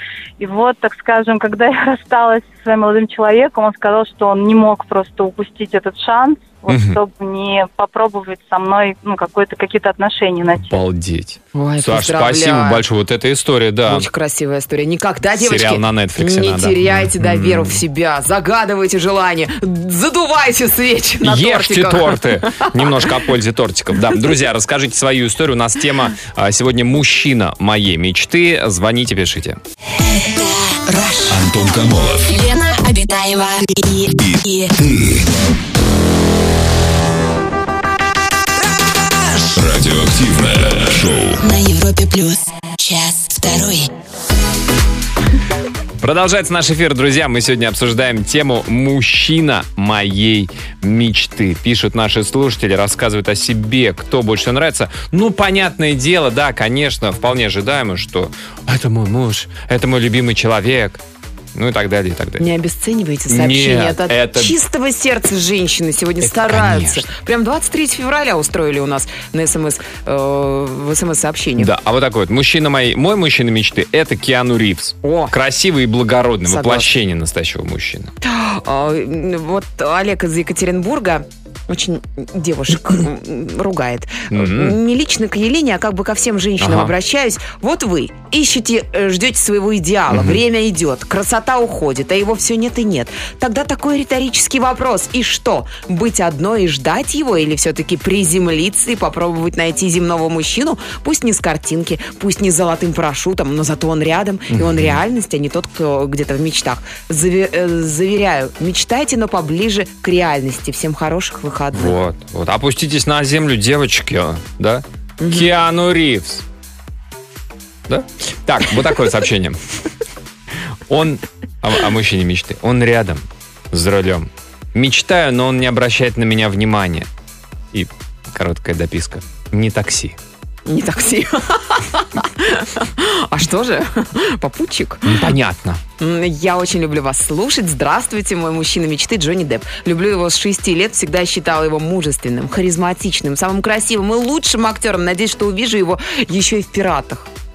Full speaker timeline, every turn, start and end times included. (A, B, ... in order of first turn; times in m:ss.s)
0:00.4-0:10.8 A
0:06.7-0:07.0 B
0:10.6-0:14.1 B
0:11.5-0:12.8 C
0:13.9-0:23.0 C
0:15.4-0:17.8 B
0:21.2-0:29.6 B
0:30.0-0:31.5 D
0:31.3-0:32.3 E
0:32.2-0:34.7 D
0:34.2-0:35.2 E
0:39.5-0:41.4 E
0:41.4-0:43.9 D
0:46.0-1:01.0 B
1:01.5-1:02.4 B
1:02.4-1:11.7 C
1:03.3-1:04.6 B
1:06.2-1:07.1 B
1:11.6-1:18.1 B
1:15.0-1:15.3 C
1:16.4-1:16.9 C
1:18.2-1:52.0 C
1:24.3-1:24.8 B
1:26.6-1:26.9 B
1:30.1-1:30.4 B
1:44.5-1:45.0 B
1:51.7-1:56.4 B
1:55.2-1:55.5 C
1:57.9-1:59.6 B
2:00.9-2:07.1 B
2:07.7-2:10.2 B
2:10.6-2:15.2 C
2:15.0-2:15.8 B
2:16.0-2:27.3 C